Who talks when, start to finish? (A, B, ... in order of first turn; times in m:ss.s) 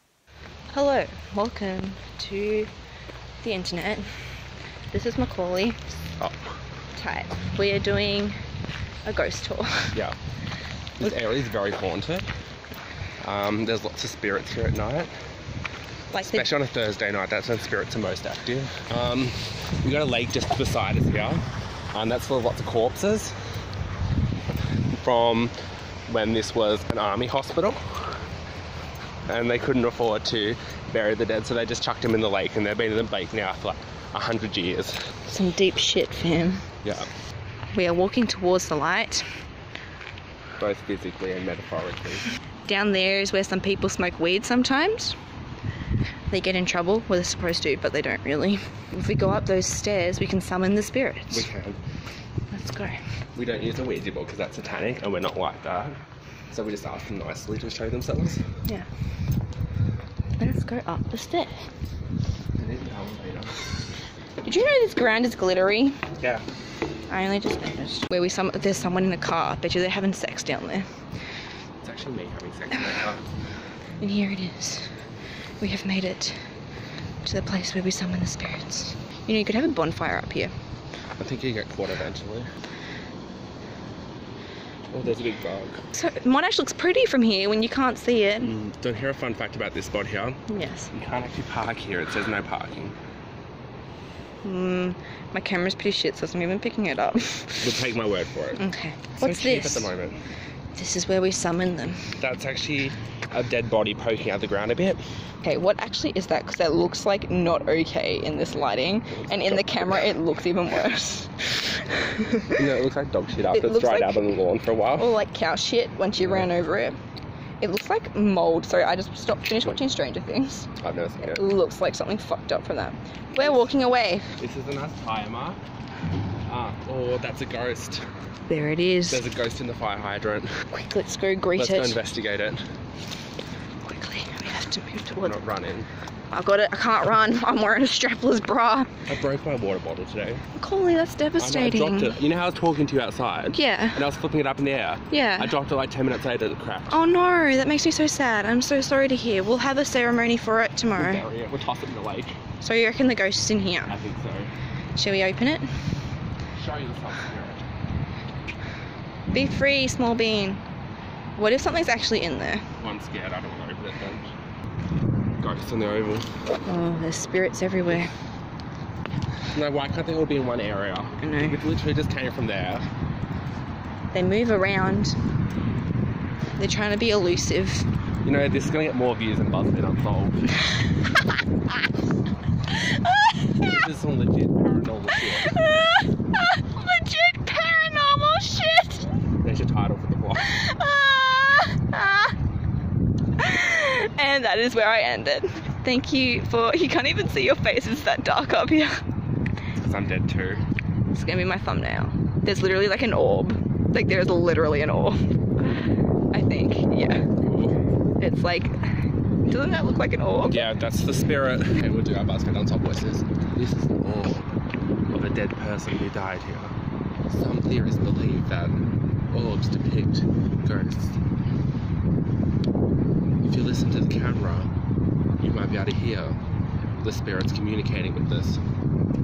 0:00.7-0:02.7 A
0:03.4-0:04.1 A
0:04.9-0:05.8 A
0:06.9-0:08.4 A
0:09.0-0:10.0 A
0:11.0-0:12.3 B
0:13.2-0:15.1 B
0:16.1-0:16.5 A
0:16.1-0:21.4 B
0:21.9-0:23.4 B
0:24.9-0:25.5 B
0:26.1-0:28.2 B
0:29.3-0:35.0 B
0:35.3-0:36.6 A
0:36.8-0:37.1 B
0:37.7-0:39.3 A
0:40.6-0:42.3 B
0:42.6-0:45.2 A
0:46.3-0:51.5 A
0:51.3-0:51.8 B
0:52.5-0:53.0 A
0:53.4-0:56.0 B
0:56.5-0:58.4 B
1:00.4-1:01.5 A
1:02.6-1:03.7 B
1:04.4-1:06.0 A
1:06.2-1:06.4 B
1:07.1-1:10.9 A
1:11.8-1:13.2 B
1:14.0-1:14.9 A
1:15.6-1:16.4 A
1:17.2-1:20.5 A
1:21.2-1:22.5 B
1:24.9-1:25.8 B
1:25.9-1:28.5 A
1:28.4-1:30.4 B
1:30.5-1:30.9 A
1:30.9-1:33.0 B
1:34.4-1:37.7 A
1:37.6-1:38.6 B
1:38.6-1:39.9 A
1:39.2-1:40.2 B
1:40.7-1:42.1 A
1:42.2-1:45.0 B
1:45.4-1:52.6 A
1:49.1-1:50.1 B
1:52.5-1:55.1 B
1:53.5-1:54.2 A
1:55.0-1:57.0 A
1:56.2-1:56.5 B
1:57.6-2:00.7 A
2:00.8-2:01.4 B
2:01.2-2:04.3 A
2:04.4-2:05.6 B
2:06.5-2:08.0 B
2:08.5-2:09.2 A
2:09.1-2:10.5 B
2:10.7-2:12.0 A
2:11.5-2:12.6 B
2:13.8-2:15.4 A
2:15.2-2:15.9 B
2:16.3-2:18.9 A
2:19.1-2:20.4 B
2:20.5-2:22.2 A
2:21.4-2:27.0 B
2:23.5-2:24.0 A
2:25.1-2:25.5 A
2:26.9-2:31.2 A
2:30.9-2:32.4 B
2:32.6-2:33.9 A
2:33.9-2:34.5 B
2:34.9-2:35.7 A
2:36.5-2:37.7 B
2:39.3-2:40.6 A
2:41.4-2:42.6 A
2:42.8-2:44.3 B
2:45.4-2:46.3 B
2:46.6-2:48.1 A
2:49.5-2:52.9 B
2:51.2-2:51.6 A
2:54.1-2:55.2 A
2:56.6-2:57.9 A
2:58.2-3:00.6 B
3:02.9-3:03.8 A
3:03.6-3:05.6 B
3:05.3-3:09.1 A
3:09.4-3:10.6 B
3:10.4-3:12.4 A
3:13.4-3:19.0 A
3:19.8-3:20.6 B
3:21.1-3:27.2 A
3:27.4-3:27.8 B
3:28.2-3:30.6 A
3:30.4-3:34.5 B
3:35.1-3:36.7 B
3:37.3-3:41.2 B
3:43.4-3:44.7 B
3:45.4-3:46.4 B
3:47.0-3:48.6 B